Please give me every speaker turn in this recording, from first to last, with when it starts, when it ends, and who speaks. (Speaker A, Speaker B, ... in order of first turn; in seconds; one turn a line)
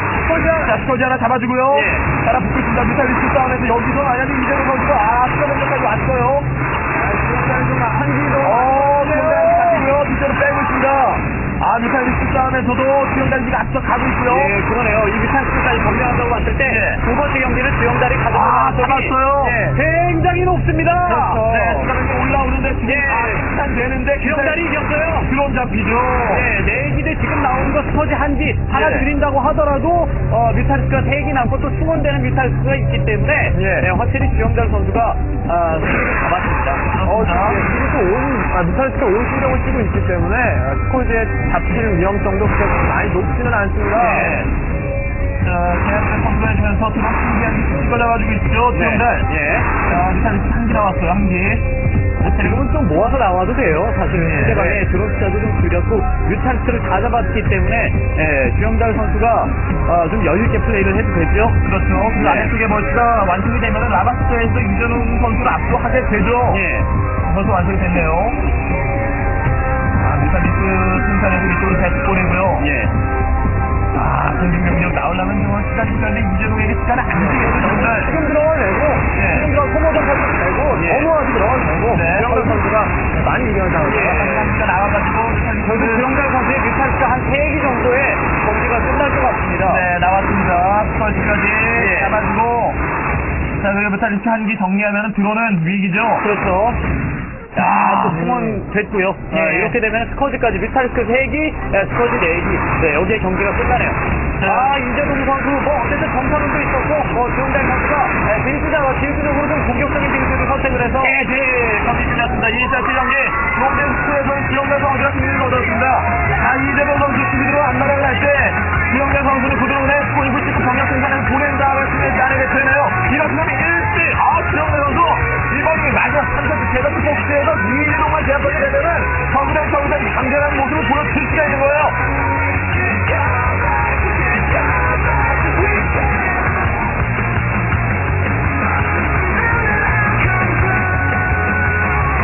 Speaker A: 0.3-6.5
Speaker B: 1.7-2.1
Speaker B: 6.9-9.9
Speaker A: 8.4-14.6
Speaker B: 14.2-21.9
Speaker A: 16.6-17.0
Speaker A: 18.3-19.7
Speaker C: 21.0-21.8
Speaker A: 21.4-24.6
Speaker B: 22.8-23.4
Speaker B: 24.2-25.3
Speaker A: 25.2-26.5
Speaker B: 26.3-36.9
Speaker A: 28.7-29.1
Speaker C: 33.5-33.9
Speaker A: 36.9-37.6
Speaker C: 37.0-44.4
Speaker A: 43.9-44.5
Speaker A: 45.4-51.6
Speaker B: 48.7-49.7
Speaker A: 52.2-52.7
Speaker B: 52.2-61.6
Speaker A: 54.1-54.8
Speaker A: 61.6-66.6
Speaker B: 62.1-62.5
Speaker B: 66.5-66.9
Speaker A: 67.2-68.4
Speaker A: 69.9-72.7
Speaker B: 72.6-72.9
Speaker A: 73.9-78.2
Speaker C: 77.1-84.4
Speaker A: 79.1-79.5
Speaker B: 80.7-81.1
Speaker A: 81.9-82.6
Speaker A: 83.8-86.1
Speaker B: 84.2-84.5
Speaker B: 85.6-89.9
Speaker A: 89.6-92.8
Speaker B: 91.7-92.2
Speaker A: 93.6-96.2
Speaker B: 96.2-96.8
Speaker B: 97.5-111.2
Speaker A: 97.5-98.2
Speaker C: 98.1-98.6
Speaker A: 99.3-99.8
Speaker A: 104.4-104.8
Speaker A: 111.0-132.0